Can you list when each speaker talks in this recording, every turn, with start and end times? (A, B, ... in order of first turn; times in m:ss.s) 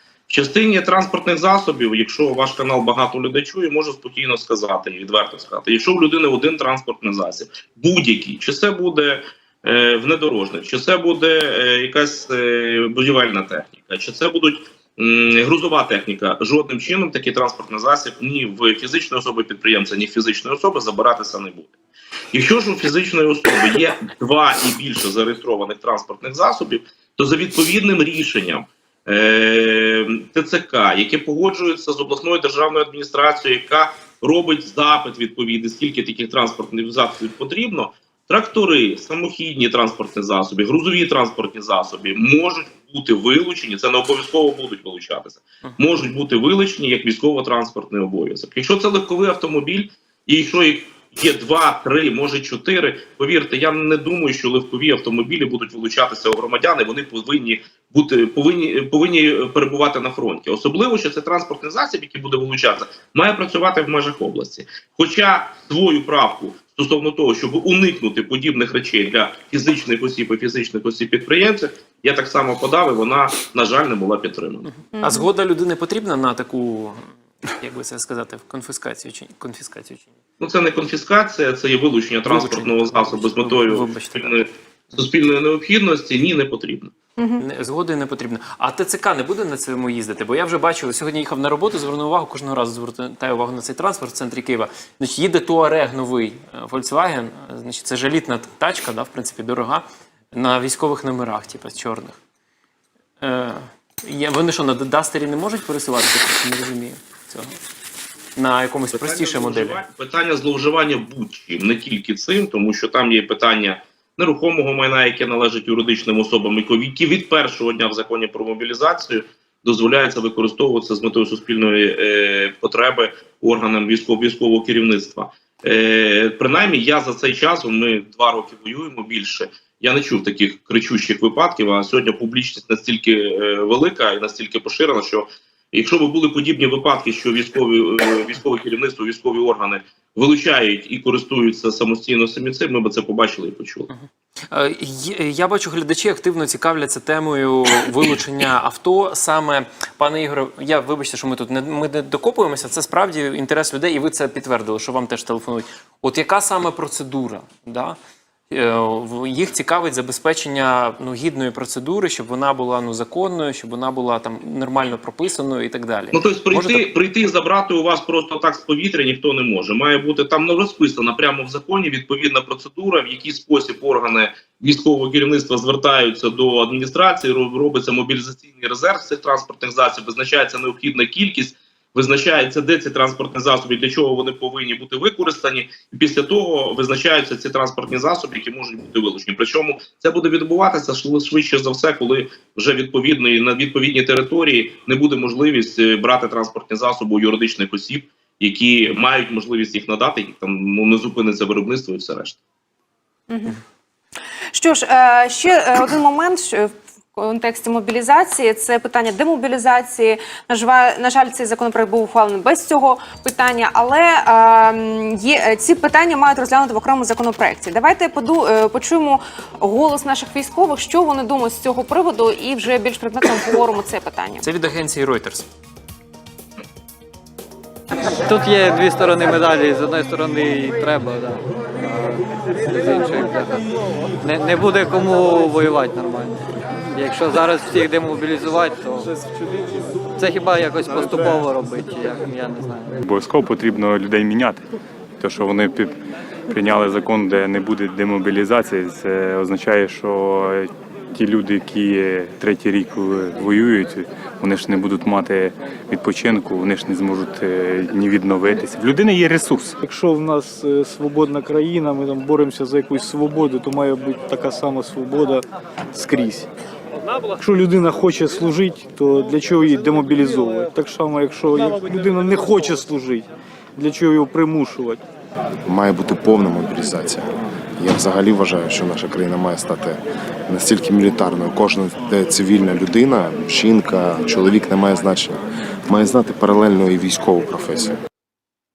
0:00.3-0:21.7 A
0:22.3-1:14.7 A
1:14.7-1:20.1 B
1:14.9-1:15.3 C
1:20.4-1:26.9 A
1:22.2-1:24.5 B
1:27.2-1:27.4 C
1:27.4-1:42.2 B
1:43.2-1:47.5 B
1:48.4-1:49.8 B
1:48.9-2:23.9 A
2:23.9-2:38.0 B
2:38.5-2:46.9 B
2:46.1-3:22.4 A
3:23.3-3:23.6 C
3:24.5-3:44.4 C
3:44.4-3:45.5 B
3:48.2-3:53.6 D
3:54.2-3:56.4 D
3:56.9-3:59.1 D
4:00.2-4:02.9 D
4:03.0-4:04.6 E
4:05.2-4:19.8 E
4:19.8-4:26.5 F
4:27.4-4:35.0 F
4:35.6-4:48.0 G